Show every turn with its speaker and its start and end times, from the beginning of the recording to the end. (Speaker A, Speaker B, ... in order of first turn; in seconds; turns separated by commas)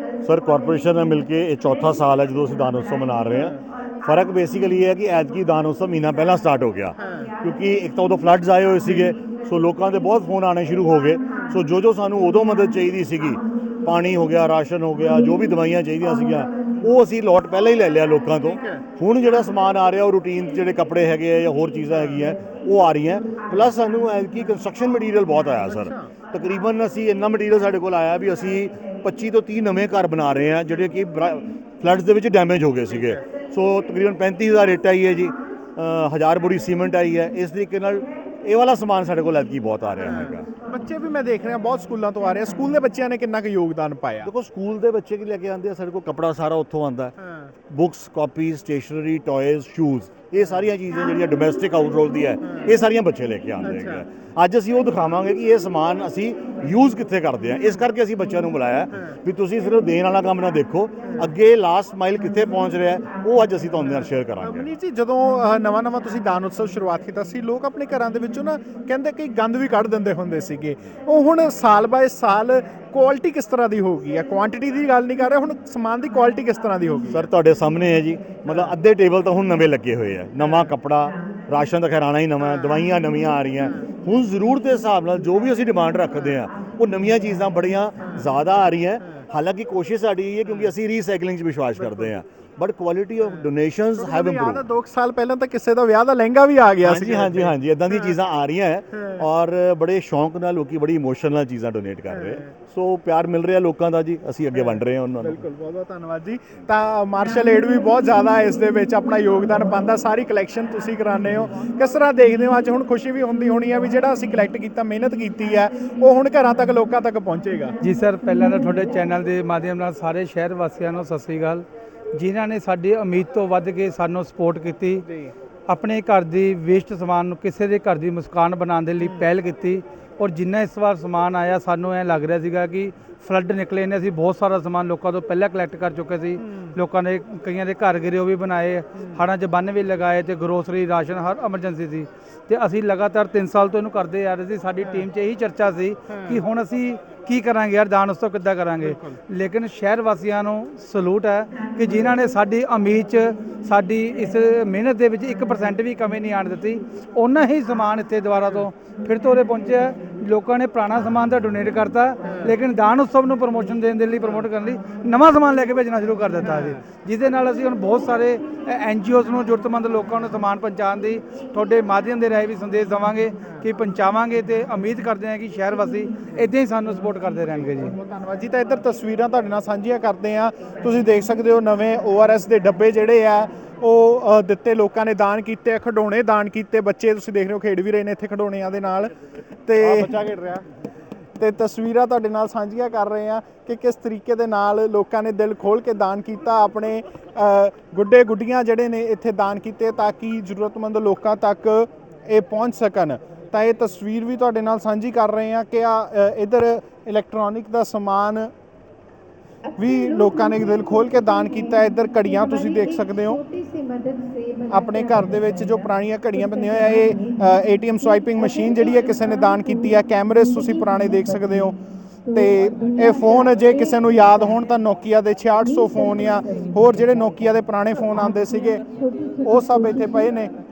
Speaker A: 0.2-40.5, Speaker B: 18.4-18.8, Speaker B: 21.9-22.2, Speaker B: 25.6-26.1, Speaker B: 40.0-44.3, Speaker A: 44.2-47.1, Speaker A: 47.7-64.7, Speaker B: 64.4-77.3, Speaker A: 77.1-94.6, Speaker B: 93.9-97.5, Speaker A: 96.8-105.4, Speaker B: 104.5-117.8, Speaker C: 117.8-125.0, Speaker B: 125.1-125.3, Speaker C: 125.7-177.9, Speaker B: 177.5-189.1, Speaker B: 189.7-190.3, Speaker B: 191.4-208.5, Speaker B: 209.8-213.5, Speaker B: 214.7-228.8, Speaker B: 229.4-230.5